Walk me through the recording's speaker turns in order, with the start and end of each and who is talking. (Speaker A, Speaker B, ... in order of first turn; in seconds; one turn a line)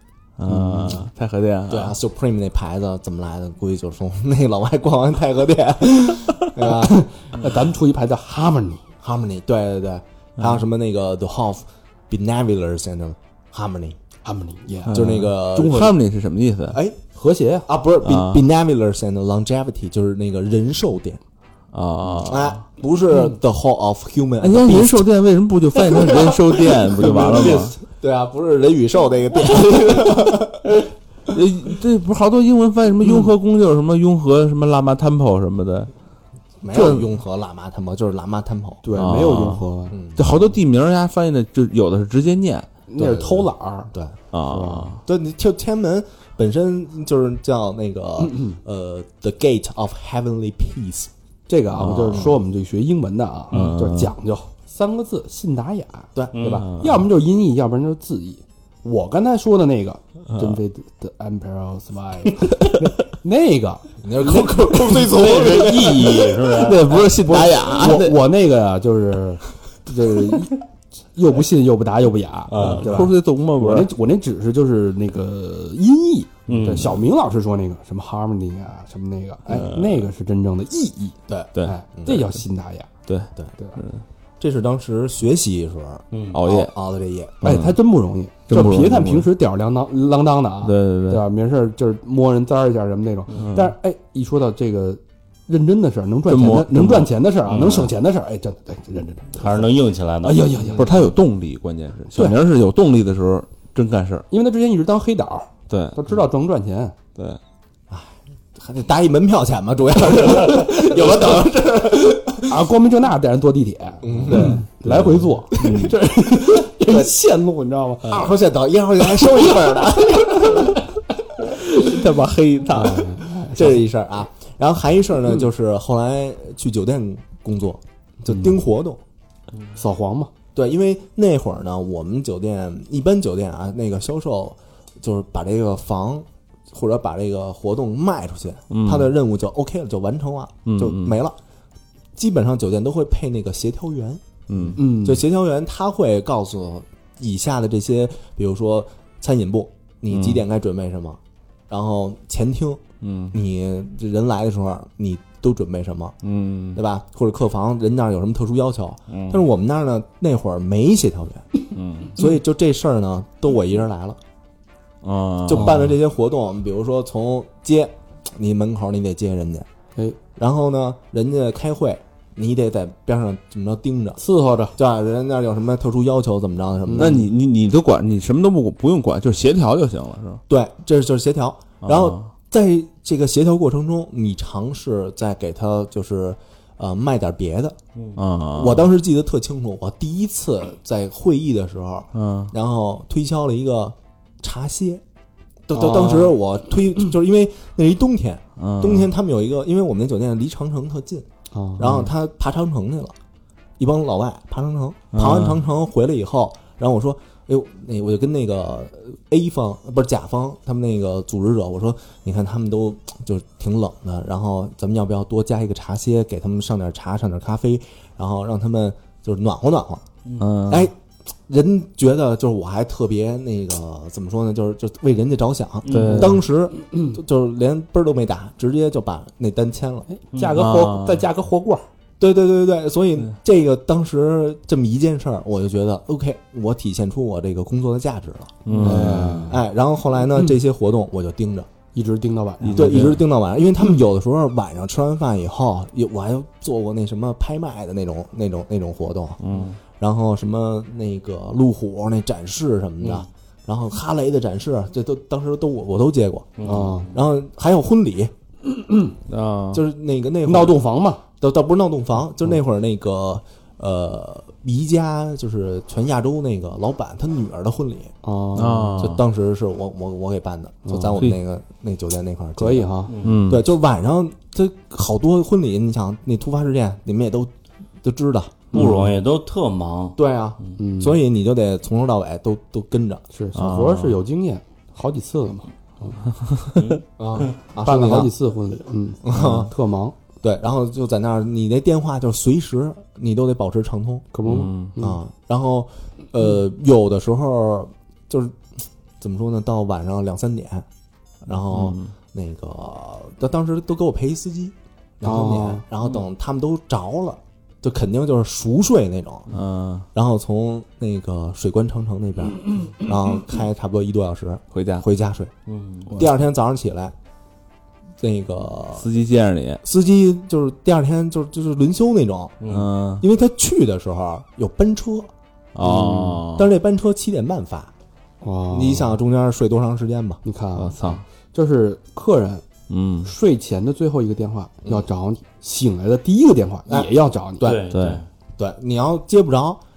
Speaker A: 0.4-1.9
Speaker B: 0.5-1.0
Speaker C: 1.7-7.0
Speaker B: 6.6-8.8
Speaker C: 9.0-14.0
Speaker B: 14.2-16.0
Speaker A: 14.9-16.8
Speaker C: 14.9-15.8
Speaker C: 16.7-17.0
Speaker B: 17.1-17.7
Speaker C: 17.6-21.2
Speaker A: 18.0-18.4
Speaker A: 21.7-22.6
Speaker C: 22.2-25.1
Speaker A: 24.4-27.7
Speaker C: 25.8-30.6
Speaker B: 27.0-27.8
Speaker A: 31.3-35.9
Speaker C: 36.6-38.8
Speaker A: 36.7-37.1
Speaker B: 38.8-40.0
Speaker A: 38.9-39.6
Speaker C: 39.9-40.4
Speaker A: 40.1-42.7
Speaker B: 42.9-43.9
Speaker C: 43.0-43.4
Speaker A: 44.3-45.0
Speaker B: 44.5-45.0
Speaker C: 45.0-51.1
Speaker B: 48.2-48.6
Speaker B: 51.5-66.2
Speaker A: 51.8-52.3
Speaker A: 53.5-54.1
Speaker D: 56.3-57.0
Speaker C: 64.0-66.3
Speaker D: 65.1-67.1
Speaker A: 66.4-68.2
Speaker B: 66.9-70.6
Speaker B: 71.1-82.9
Speaker D: 72.5-73.1
Speaker A: 72.6-73.9
Speaker D: 76.5-77.0
Speaker A: 76.5-76.9
Speaker A: 79.5-80.0
Speaker C: 81.3-82.2
Speaker A: 83.0-84.0
Speaker C: 84.4-87.5
Speaker D: 86.1-86.4
Speaker A: 86.3-86.7
Speaker A: 87.4-87.8
Speaker B: 87.4-100.9
Speaker A: 88.5-89.3
Speaker A: 90.6-91.2
Speaker A: 93.4-93.7
Speaker A: 96.3-97.1
Speaker D: 97.5-97.9
Speaker D: 99.4-100.6
Speaker C: 100.6-101.0
Speaker A: 100.7-104.2
Speaker B: 102.1-102.4
Speaker B: 104.3-107.0
Speaker A: 105.7-106.0
Speaker C: 107.9-112.6
Speaker B: 112.4-118.3
Speaker C: 114.0-114.6
Speaker A: 114.2-115.9
Speaker C: 115.5-115.9
Speaker C: 116.8-117.1
Speaker C: 118.0-120.7
Speaker A: 121.7-123.2
Speaker B: 122.7-123.8
Speaker C: 123.5-129.0
Speaker B: 129.8-130.3
Speaker C: 130.5-141.4
Speaker A: 138.7-139.1
Speaker A: 140.7-141.2
Speaker C: 142.2-156.2
Speaker A: 144.5-144.8
Speaker B: 144.8-145.2
Speaker A: 150.1-150.4
Speaker A: 153.0-153.3
Speaker A: 156.2-156.8
Speaker C: 156.7-161.5
Speaker A: 159.1-159.4
Speaker A: 161.7-162.2
Speaker C: 162.1-164.2
Speaker A: 165.0-165.8
Speaker C: 165.4-169.7
Speaker B: 165.6-165.8
Speaker C: 170.3-174.2
Speaker B: 174.2-174.8
Speaker C: 174.7-177.2
Speaker B: 176.8-177.2
Speaker A: 177.0-180.4
Speaker C: 180.5-187.8
Speaker A: 181.8-182.2
Speaker A: 188.2-188.9
Speaker C: 188.5-195.0
Speaker A: 192.1-192.5
Speaker C: 195.7-203.1
Speaker B: 195.8-196.3
Speaker A: 198.6-199.1
Speaker B: 201.5-202.0
Speaker C: 203.8-220.0
Speaker A: 205.1-205.6
Speaker A: 220.4-220.9
Speaker C: 220.6-230.1
Speaker D: 225.8-226.3
Speaker A: 225.9-226.4
Speaker B: 226.0-226.3
Speaker B: 230.1-231.8
Speaker D: 230.3-230.7
Speaker A: 230.5-231.2
Speaker C: 232.2-241.7
Speaker A: 238.6-239.5
Speaker B: 238.7-239.6
Speaker B: 241.9-243.2
Speaker A: 242.6-243.2
Speaker C: 242.7-249.4
Speaker A: 249.4-249.7
Speaker C: 250.0-258.3
Speaker D: 256.6-257.1
Speaker B: 256.6-257.1
Speaker B: 258.7-259.1
Speaker A: 259.3-259.8
Speaker C: 259.7-260.8
Speaker B: 260.4-261.2
Speaker C: 261.4-268.1
Speaker B: 268.2-269.1
Speaker A: 268.5-269.2
Speaker C: 269.0-277.5
Speaker B: 270.8-271.2
Speaker B: 272.6-273.1
Speaker D: 273.1-273.5
Speaker A: 273.2-273.6
Speaker C: 278.0-278.7
Speaker D: 278.7-280.7
Speaker B: 278.7-279.0
Speaker A: 278.7-279.1
Speaker C: 280.2-283.2
Speaker B: 280.8-281.2
Speaker B: 283.3-286.2
Speaker A: 283.5-284.2
Speaker D: 286.7-287.5
Speaker C: 287.2-288.3
Speaker B: 287.8-290.1
Speaker C: 289.2-289.7
Speaker C: 290.4-294.2
Speaker B: 294.3-295.2
Speaker A: 294.4-294.9
Speaker C: 295.0-300.9
Speaker C: 301.4-309.5
Speaker A: 301.7-302.1
Speaker B: 305.2-305.8
Speaker A: 309.5-310.1
Speaker C: 310.1-315.5
Speaker A: 314.7-315.0
Speaker D: 315.7-316.1
Speaker C: 316.1-317.1
Speaker C: 318.2-319.1
Speaker A: 319.0-319.8
Speaker C: 319.8-322.6
Speaker D: 322.6-322.9
Speaker A: 322.7-323.2
Speaker C: 323.2-325.3
Speaker A: 325.7-326.7
Speaker B: 325.8-326.4
Speaker C: 326.5-327.9
Speaker B: 328.4-329.1
Speaker C: 328.7-330.4
Speaker B: 330.4-332.6
Speaker A: 330.8-331.2
Speaker A: 332.9-333.3
Speaker B: 333.2-337.7
Speaker C: 336.9-338.0
Speaker D: 337.6-338.2
Speaker A: 337.9-338.2
Speaker C: 338.6-339.8